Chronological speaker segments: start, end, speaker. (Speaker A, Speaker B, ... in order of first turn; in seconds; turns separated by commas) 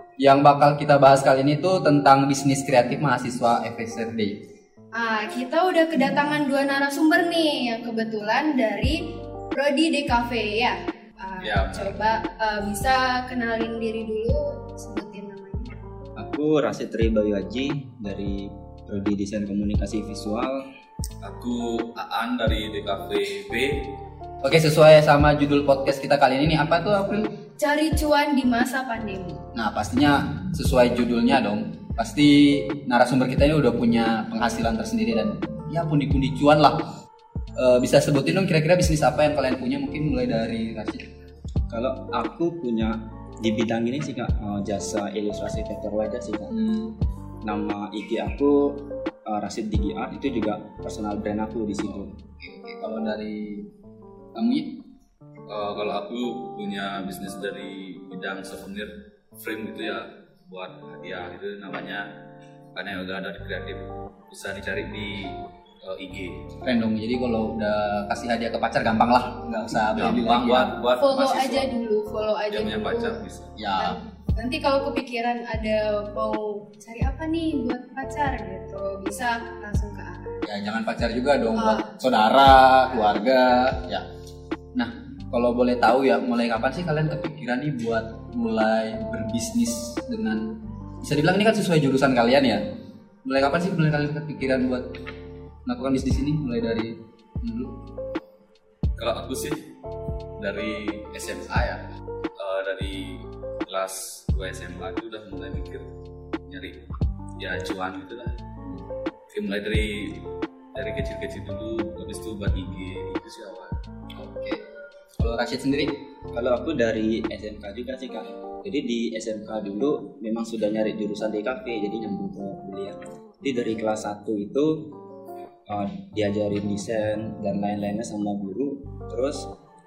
Speaker A: 0.2-4.3, Speaker B: 5.0-9.0, Speaker B: 9.5-15.8, Speaker C: 11.4-12.0, Speaker D: 16.2-20.7, Speaker C: 21.2-23.9, Speaker A: 24.4-27.3, Speaker B: 27.6-29.4, Speaker A: 29.5-36.8, Speaker A: 37.6-41.0, Speaker D: 41.7-46.5, Speaker A: 46.5-46.9, Speaker D: 47.4-52.1, Speaker A: 52.4-53.7, Speaker A: 54.4-54.7, Speaker C: 55.5-62.1, Speaker C: 62.8-66.4, Speaker A: 66.6-70.7, Speaker C: 69.9-71.7, Speaker B: 71.0-73.2, Speaker C: 72.5-73.5, Speaker A: 73.6-74.0, Speaker B: 73.8-80.4, Speaker A: 80.5-84.1, Speaker B: 81.6-81.9, Speaker A: 84.8-90.5, Speaker A: 91.0-92.6, Speaker A: 93.2-94.9, Speaker A: 95.7-97.8, Speaker C: 99.0-99.6, Speaker C: 100.4-101.8, Speaker C: 102.4-105.9, Speaker C: 106.5-106.8, Speaker C: 107.4-108.5, Speaker C: 109.3-110.2, Speaker C: 110.8-113.8, Speaker A: 114.2-114.6, Speaker A: 115.2-116.0, Speaker D: 116.3-124.9, Speaker D: 125.7-129.5